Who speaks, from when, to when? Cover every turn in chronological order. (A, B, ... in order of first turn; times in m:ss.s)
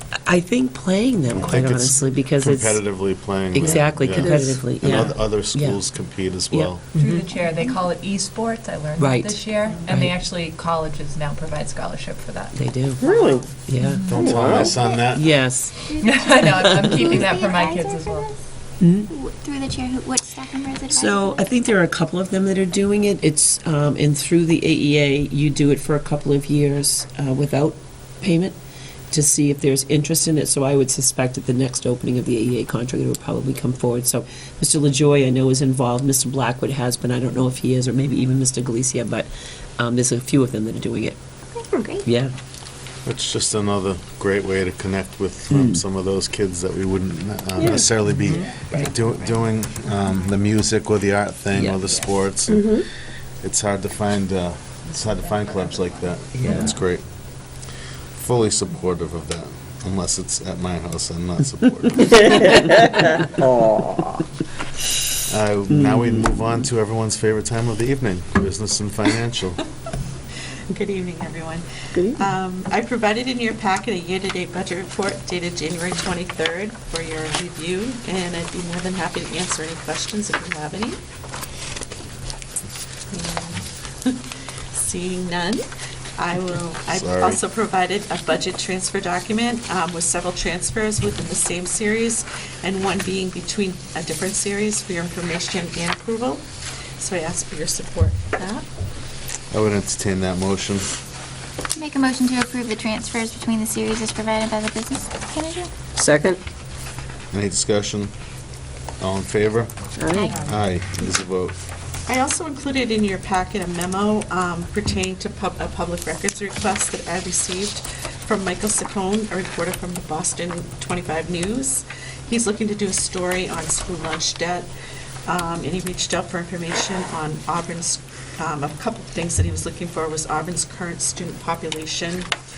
0:00.2-0:02.8 A
0:01.3-0:06.8 B
0:03.5-0:05.8 A
0:06.5-0:06.8 A
0:06.9-0:14.3 C
0:09.0-0:10.1 A
0:12.5-0:13.0 A
0:13.0-0:13.5 D
0:13.7-0:15.7 A
0:14.0-0:15.3 B
0:14.1-0:14.8 D
0:14.6-0:15.0 E
0:15.8-0:18.4 E
0:16.0-0:18.3 C
0:16.4-0:17.2 A
0:18.8-0:19.1 A
0:19.0-0:21.7 E
0:20.9-0:28.5 A
0:29.1-0:39.3 A
0:39.8-0:41.2 A
0:41.6-0:42.0 E
0:42.0-0:42.3 A
0:43.0-0:52.7 B
0:45.5-0:45.8 A
0:47.6-0:47.8 D
0:51.5-0:51.8 A
0:53.4-0:57.0 B
0:56.4-0:56.8 A
0:58.2-1:02.6 B
1:02.1-1:04.2 D
1:05.3-1:09.6 B
1:05.7-1:06.5 A
1:10.7-1:21.0 F
1:23.1-1:25.6 F
1:26.2-1:36.4 F
1:26.9-1:27.4 B
1:37.0-1:38.6 F
1:39.5-1:40.9 B
1:41.7-1:45.7 E
1:46.0-1:46.4 D
1:47.3-1:48.1 B
1:49.0-1:49.7 B
1:50.1-1:50.4 E
1:50.4-1:51.5 B
1:52.1-2:04.7 F
2:05.3-2:12.3 F